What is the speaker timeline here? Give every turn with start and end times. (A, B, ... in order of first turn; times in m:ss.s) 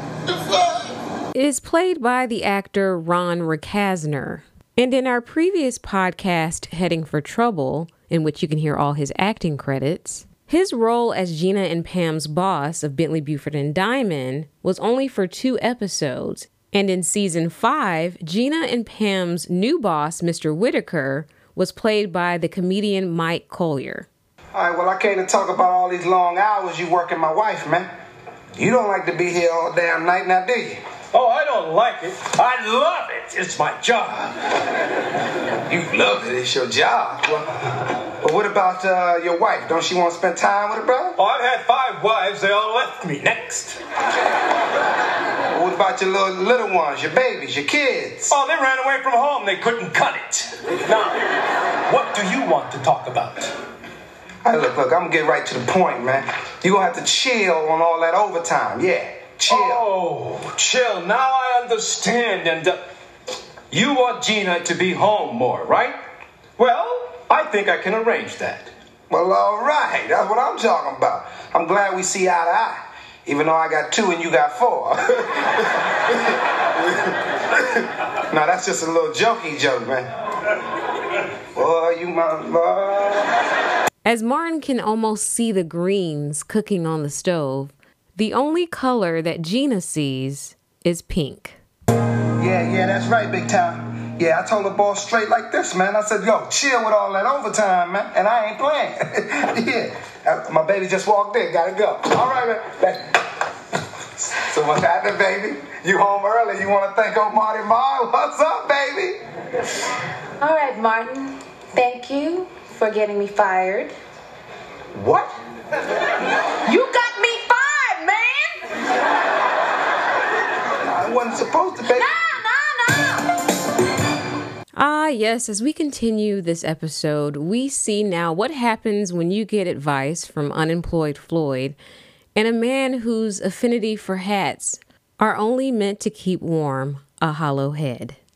0:01.3-0:24.1 A
0:24.5-0:27.9 B
0:28.6-0:30.8 B
0:31.1-0:34.4 C
0:35.7-0:37.6 B
0:38.2-0:41.2 B
0:41.2-0:43.8 C
0:45.5-0:48.3 B
0:48.3-0:51.2 C
0:51.9-0:53.5 C
0:54.4-0:59.8 B
0:59.5-1:02.8 C
1:03.7-1:06.0 C
1:06.6-1:08.7 C
1:09.1-1:20.1 B
1:21.6-1:23.3 B
1:24.0-1:31.6 A
1:32.4-1:43.2 B
1:44.2-1:49.2 B
1:50.4-1:53.9 D
1:54.9-1:55.3 B
1:56.7-1:58.6 D
2:00.8-2:02.1 B
2:01.9-2:03.3 D
2:04.8-2:11.8 A
2:12.4-2:18.2 A